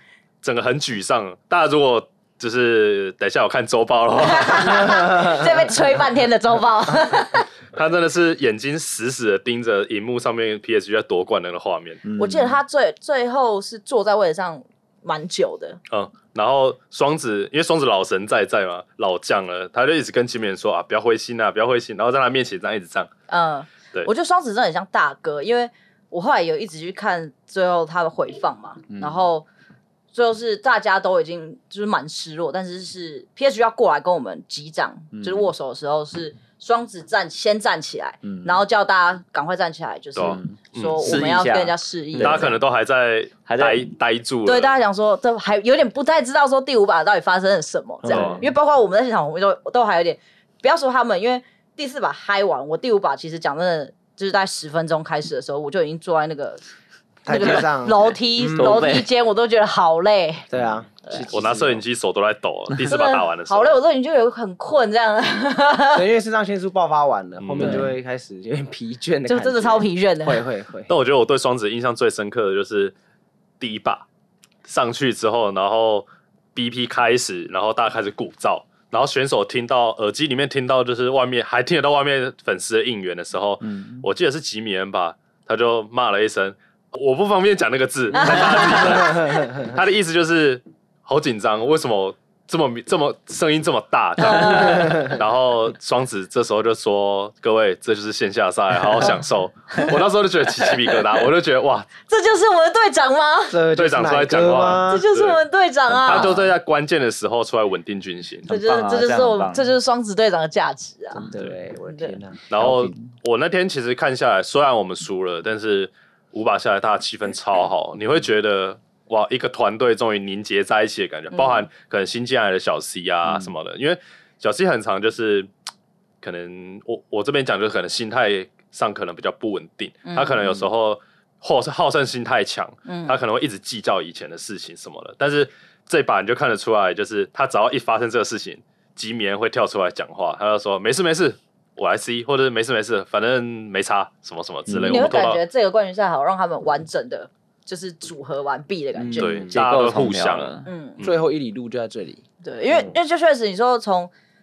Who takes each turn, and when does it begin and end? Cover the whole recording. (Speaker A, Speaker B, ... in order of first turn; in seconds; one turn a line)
Speaker A: 0.4-5.2
Speaker B: 4.2-7.5
Speaker A: 7.7-12.0
Speaker C: 12.0-12.6
Speaker B: 12.2-15.8
Speaker A: 15.9-23.1
Speaker B: 23.3-29.4
Speaker C: 28.9-29.2
Speaker B: 30.1-42.5
Speaker C: 35.1-35.5
Speaker C: 38.2-38.6
Speaker A: 40.1-41.3
Speaker C: 40.2-42.5
Speaker A: 42.2-44.7
Speaker C: 43.5-43.9
Speaker B: 44.5-56.6
Speaker D: 48.0-48.5
Speaker C: 48.1-48.4
Speaker D: 57.2-58.8
Speaker B: 57.3-60.5
Speaker C: 58.5-59.1
Speaker D: 60.5-61.8
Speaker A: 61.3-63.8
Speaker B: 62.9-66.0
Speaker D: 65.9-70.9
Speaker A: 67.4-67.8
Speaker C: 67.6-67.9
Speaker B: 69.3-70.4
Speaker A: 70.9-72.9
Speaker A: 73.6-74.0
Speaker A: 74.7-101.9
Speaker C: 83.6-84.0
Speaker B: 88.1-89.5
Speaker D: 88.7-89.2
Speaker B: 94.2-95.0
Speaker D: 94.8-95.1
Speaker B: 102.1-103.6
Speaker D: 103.5-105.1
Speaker A: 103.7-105.4
Speaker B: 104.9-106.3
Speaker C: 105.9-106.5
Speaker A: 106.0-108.5
Speaker C: 108.5-109.7
Speaker B: 108.5-111.3
Speaker D: 111.2-112.4
Speaker B: 111.9-112.2
Speaker A: 112.5-125.5
Speaker C: 112.6-113.0
Speaker B: 121.3-121.7
Speaker A: 126.2-145.4
Speaker B: 130.1-130.4
Speaker B: 132.8-133.2
Speaker C: 144.7-145.1
Speaker B: 144.8-149.4
Speaker D: 149.0-149.6
Speaker A: 149.2-151.2
Speaker C: 149.5-150.7
Speaker B: 150.6-151.0
Speaker D: 151.0-152.9
Speaker B: 152.4-154.1